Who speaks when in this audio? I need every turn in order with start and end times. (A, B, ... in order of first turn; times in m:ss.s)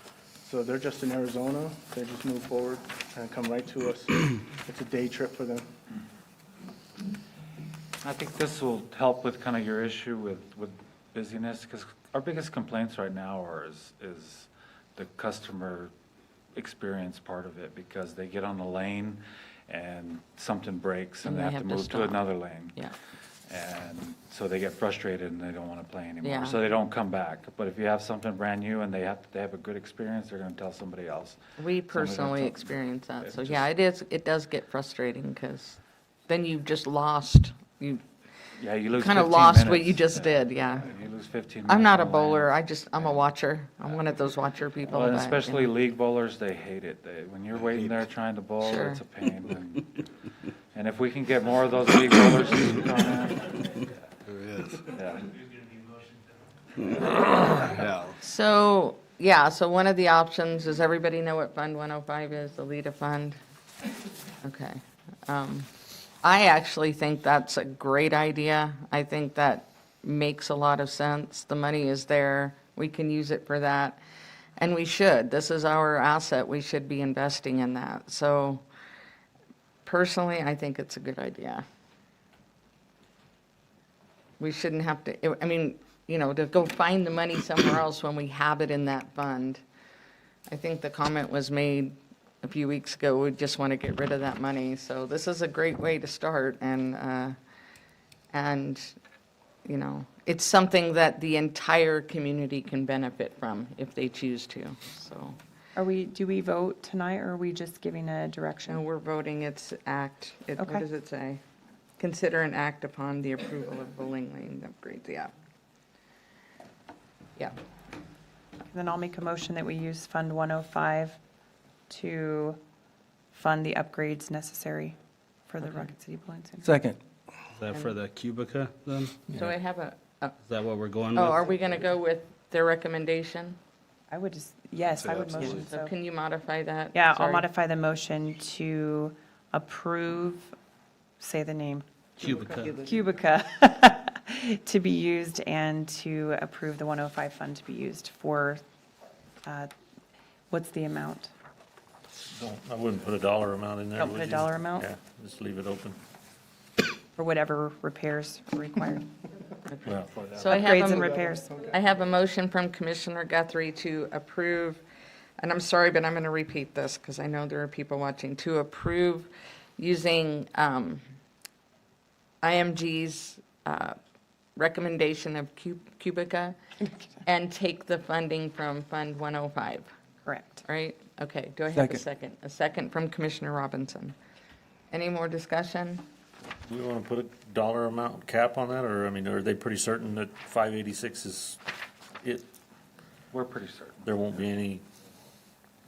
0:00.4-0:05.7 A
0:08.0-0:15.9 B
0:16.6-0:22.8 B
0:21.2-0:22.9 C
0:23.5-0:33.7 B
0:26.2-0:26.6 C
0:31.6-0:38.0 C
0:38.6-0:43.3 B
0:38.9-0:40.9 C
0:41.7-0:45.8 C
0:44.9-0:50.0 B
0:47.7-0:48.1 D
0:48.6-0:49.0 C
0:50.7-0:53.7 B
0:54.3-0:54.9 D
0:55.0-0:55.3 B
0:57.0-0:58.2 D
0:58.2-1:03.4 C
1:04.4-1:05.7 C
1:06.2-1:14.0 C
1:14.6-1:18.6 C
1:19.8-1:21.6 C
1:24.4-1:29.6 C
1:30.5-1:37.4 C
1:38.3-1:39.0 C
1:39.6-1:45.4 C
1:45.8-1:48.8 E
1:48.7-1:51.4 C
1:50.6-1:50.9 E
1:52.0-1:55.3 C
1:58.7-2:01.2 E
2:01.9-2:02.6 E
2:03.3-2:05.0 E
2:05.5-2:06.8 E
2:07.6-2:09.5 F
2:09.4-2:10.3 C
2:10.5-2:11.4 F
2:11.1-2:13.6 C
2:14.1-2:15.9 E
2:14.8-2:15.7 D
2:15.6-2:17.5 C
2:16.9-2:20.5 E
2:21.2-2:21.9 E
2:22.2-2:22.9 F
2:22.7-2:28.6 E
2:29.5-2:29.7 E
2:30.5-2:31.3 E
2:32.3-2:36.0 G
2:34.0-2:34.9 E
2:37.2-2:39.1 E
2:39.7-2:44.8 C
2:40.0-2:41.8 A
2:40.4-2:41.6 E
2:45.4-2:51.0 C
2:52.4-2:54.0 C
2:54.6-2:56.6 C
2:57.2-2:59.9 C
3:00.2-3:00.6 E
3:00.6-3:04.2 C
3:04.9-3:06.0 C
3:06.7-3:11.6 G
3:13.3-3:14.1 B
3:14.0-3:14.8 G